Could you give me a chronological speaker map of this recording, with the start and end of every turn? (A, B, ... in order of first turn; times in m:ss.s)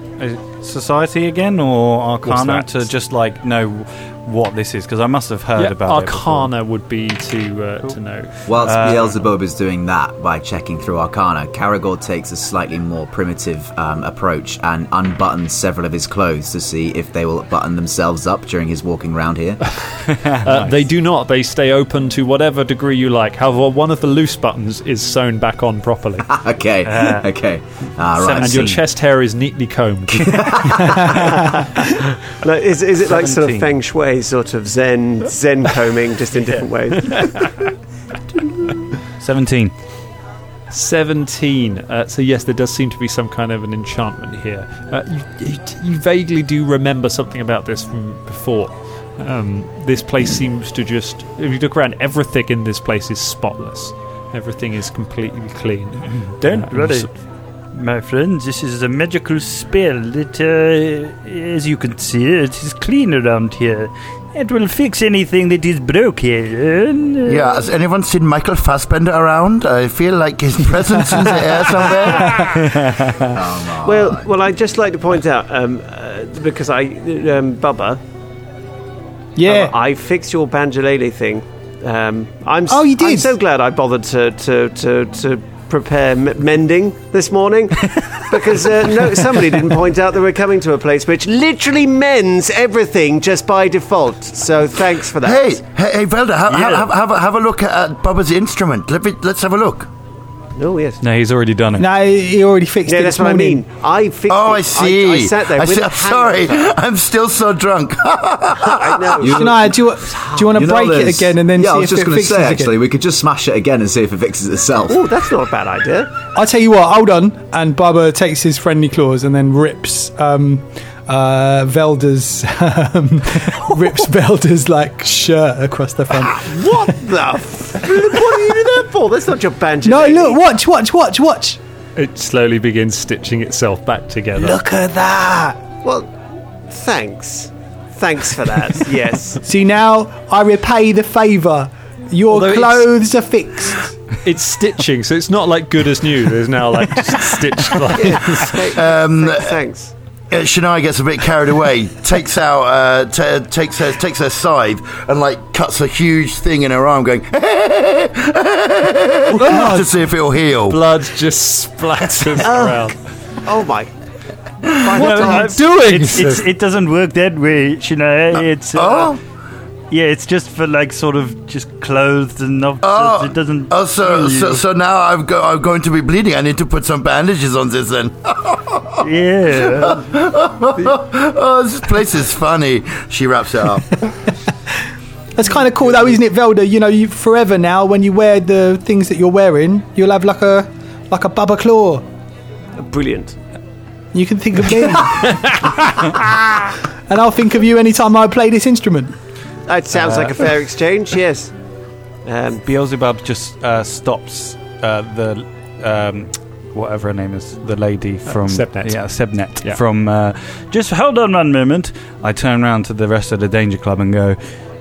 0:00.2-0:06.5 A
0:02.2-0:02.9 B
0:05.6-0:08.6 B
0:08.4-0:19.9 C
0:08.5-0:09.2 A
0:20.2-0:20.8 A
0:20.4-0:26.4 B
0:26.3-0:28.8 C
0:26.8-0:27.2 A
0:28.1-0:28.8 A
0:28.4-0:31.0 B
0:30.1-0:31.1 C
0:32.4-0:37.5 D
0:33.0-0:33.7 A
0:37.0-0:37.4 B
0:39.2-0:39.8 A
0:40.7-0:57.2 B
0:56.4-1:07.6 E
1:07.3-1:12.6 F
1:12.8-1:13.3 A
1:13.3-1:14.3 C
1:13.8-1:18.0 D
1:19.4-1:19.7 G
1:19.4-1:35.6 D
1:22.7-1:23.3 G
1:35.2-1:39.9 F
1:36.5-1:36.9 E
1:40.6-1:41.0 D
1:41.0-1:41.9 A
1:41.8-1:43.6 G
1:42.8-1:46.7 D
1:44.3-1:49.3 F
1:48.6-1:50.5 D
1:49.2-1:55.0 C
1:49.3-1:52.7 G
1:54.9-1:56.1 D
1:56.3-2:06.5 G
2:06.3-2:10.4 D
2:09.8-2:11.6 G
2:12.0-2:14.6 B
2:14.5-2:16.1 D
2:16.7-2:19.4 D
2:19.4-2:24.0 G
2:22.3-2:22.9 B
2:24.2-2:28.6 B
2:27.9-2:29.9 D
2:28.7-2:29.6 F
2:30.3-2:40.8 F
2:39.4-2:39.9 B
2:40.7-2:43.0 B
2:42.4-2:43.9 D
2:44.6-2:45.6 D
2:44.9-2:46.5 B
2:44.9-2:49.1 E
2:48.7-2:49.2 F
2:49.9-2:54.6 E
2:52.8-2:59.0 F
2:59.0-3:00.0 E
2:59.6-3:04.0 F
3:05.3-3:12.0 G
3:12.8-3:13.4 D
3:14.1-3:15.3 G
3:15.2-3:16.5 B
3:17.1-3:19.1 G
3:19.7-3:21.5 D
3:19.9-3:20.4 A
3:22.2-3:22.6 D
3:22.6-3:30.8 A
3:28.2-3:29.8 B
3:30.7-3:31.9 E
3:32.0-3:34.6 A